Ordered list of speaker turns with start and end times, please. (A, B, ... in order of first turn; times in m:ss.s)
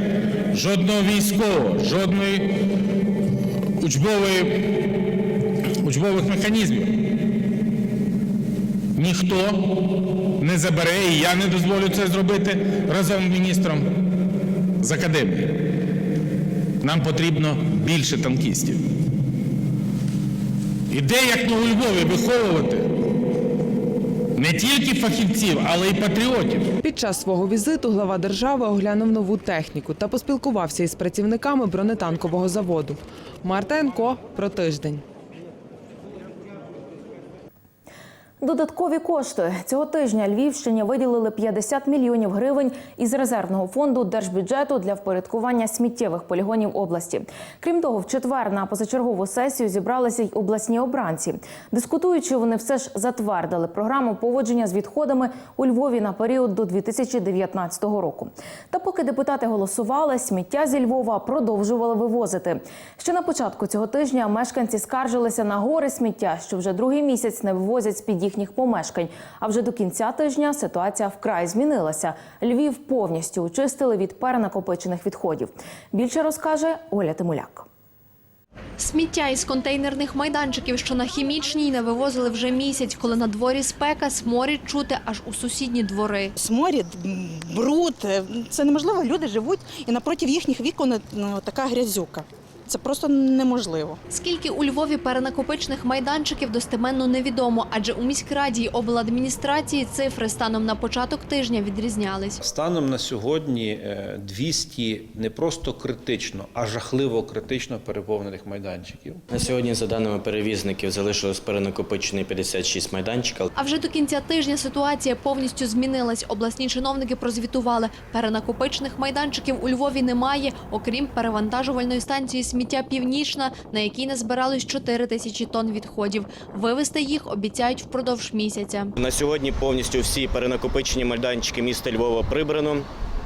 0:00.5-0:02.5 A
0:03.8-0:04.8 A
0:05.8-0:06.9 A
0:09.0-0:09.6 A
0:10.4-0:13.9 A
0:14.8-0:15.6 A
0:16.8-0:18.8 A
0:20.9-0:22.9 A
0:24.4-0:26.7 A
0:26.8-0:35.0 B
0:38.4-1:17.7 C
1:18.8-1:26.3 D
1:26.4-1:34.0 E
1:34.1-1:42.4 D
1:42.4-1:49.2 F
1:49.3-1:53.4 G
1:53.5-2:08.9 D
2:09.0-2:12.9 G